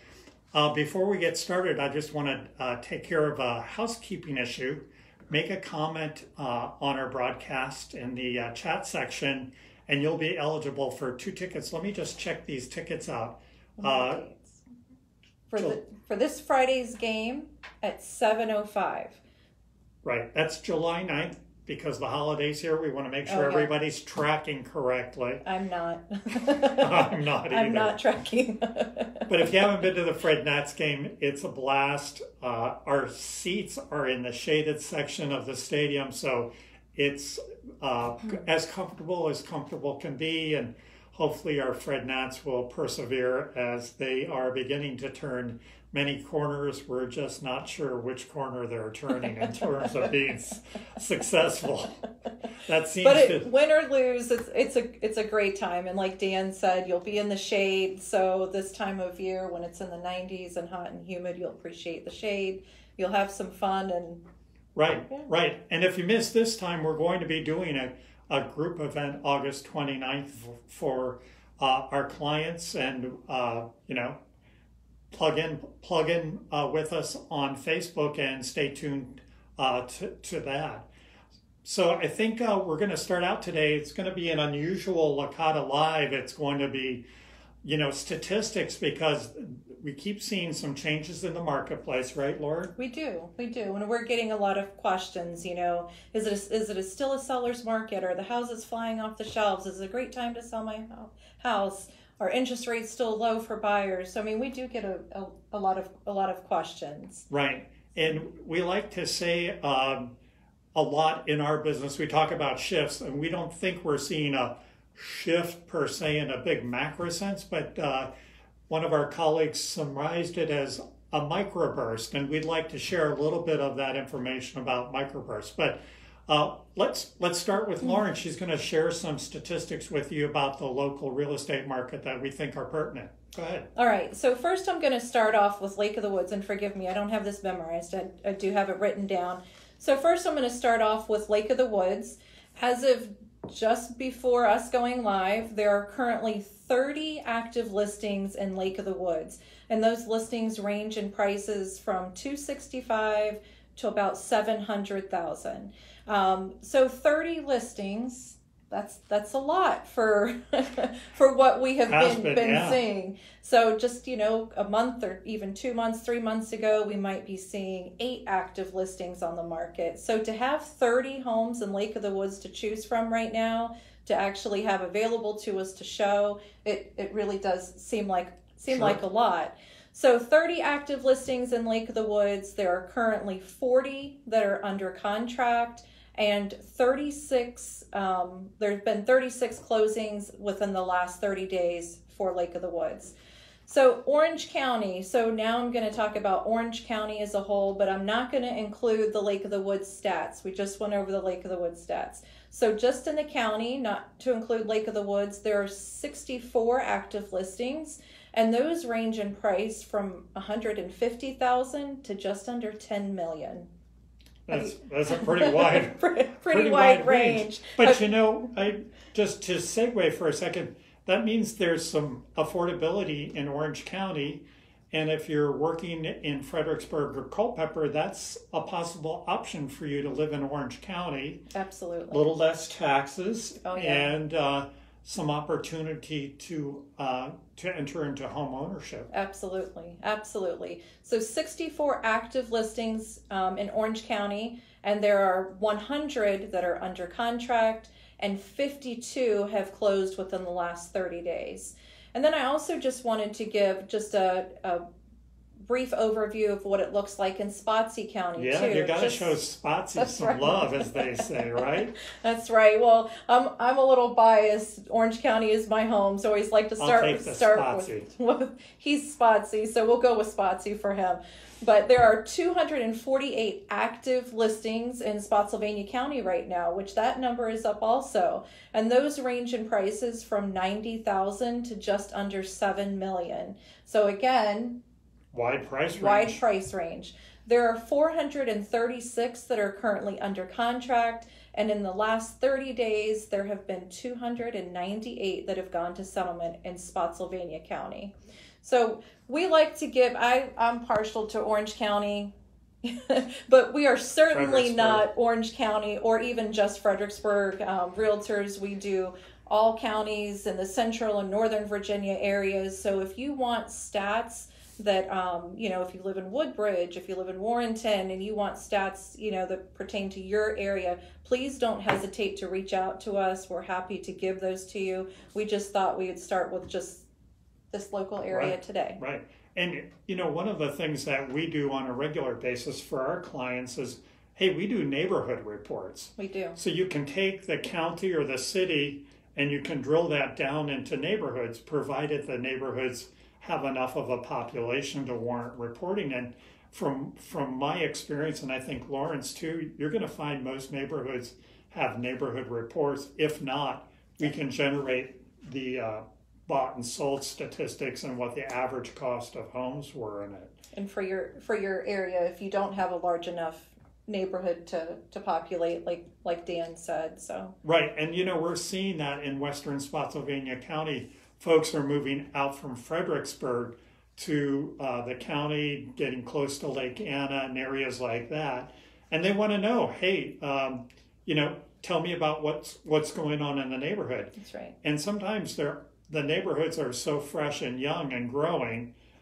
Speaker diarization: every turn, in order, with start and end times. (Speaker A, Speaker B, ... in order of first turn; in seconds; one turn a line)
Speaker A: 0.5-14.2
Speaker B: 13.8-14.6
Speaker B: 15.5-19.2
Speaker A: 20.0-25.4
Speaker B: 23.3-23.7
Speaker B: 25.4-29.5
Speaker A: 26.4-28.0
Speaker A: 29.3-52.0
Speaker B: 49.1-50.1
Speaker A: 52.5-53.5
Speaker B: 53.0-64.2
Speaker A: 64.8-74.2
Speaker A: 75.1-80.9
Speaker A: 81.6-87.0
Speaker A: 87.6-92.7
Speaker B: 92.8-107.3
Speaker A: 107.3-110.1
Speaker A: 110.8-118.1
Speaker A: 118.7-133.7
Speaker B: 133.8-193.2
Speaker A: 161.9-162.8
Speaker A: 178.7-179.0
Speaker B: 193.7-213.7
Speaker A: 214.5-231.4
Speaker B: 214.5-218.1
Speaker B: 231.5-232.2
Speaker A: 232.1-239.1
Speaker B: 233.7-234.2
Speaker B: 239.1-254.8
Speaker B: 255.7-259.4
Speaker A: 258.4-261.9
Speaker B: 260.0-284.8
Speaker A: 266.8-268.1
Speaker A: 285.3-286.4
Speaker B: 286.0-327.1
Speaker A: 304.3-305.1
Speaker B: 327.7-329.0
Speaker A: 328.3-360.5
Speaker B: 336.2-336.6
Speaker B: 360.7-367.6
Speaker A: 367.6-388.9
Speaker B: 384.4-384.8